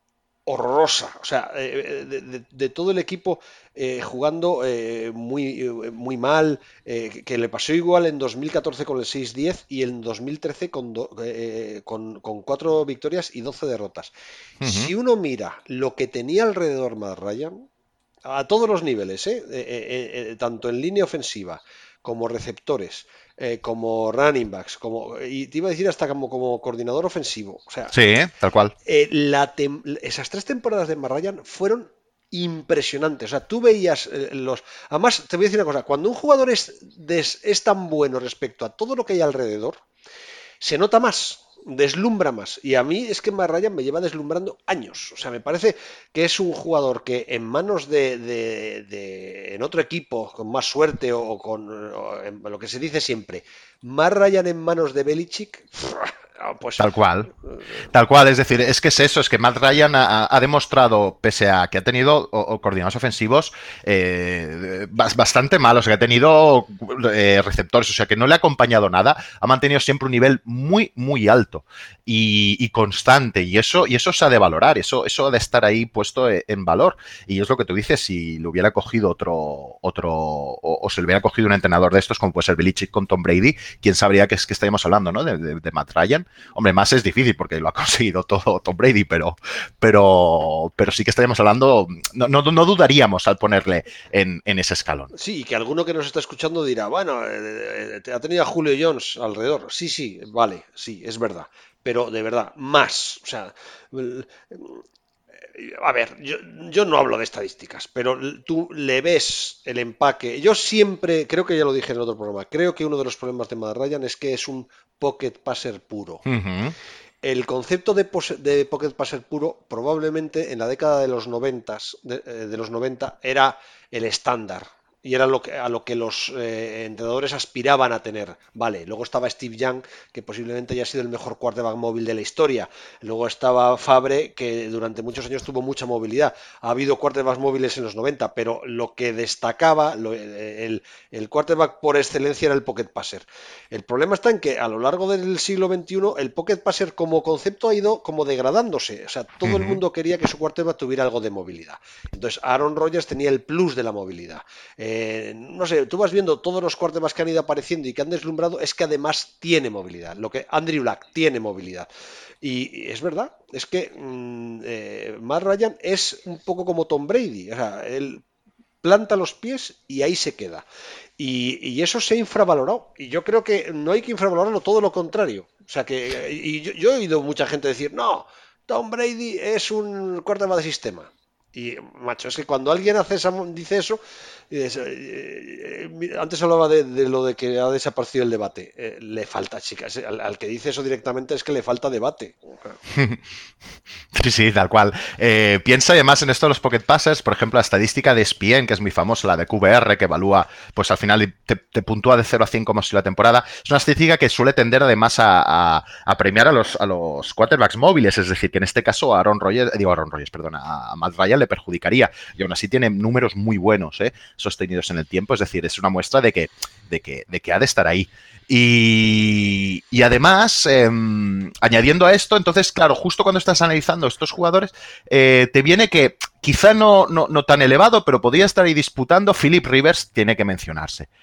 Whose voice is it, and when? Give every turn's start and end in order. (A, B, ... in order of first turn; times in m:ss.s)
0:00.5-0:17.6 A
0:14.6-0:14.9 B
0:18.2-0:27.9 A
0:27.9-0:28.7 B
0:28.8-0:39.8 A
0:40.6-0:56.9 A
0:56.8-0:57.3 B
0:57.9-1:35.1 B
1:35.1-1:44.8 A
1:45.5-1:56.2 A
1:56.2-1:56.7 B
1:57.2-2:41.9 A
2:29.4-2:29.8 B
2:42.4-2:48.2 A
2:48.8-2:50.6 A
2:51.2-3:12.8 A
3:12.9-3:13.2 B
3:14.1-3:51.1 B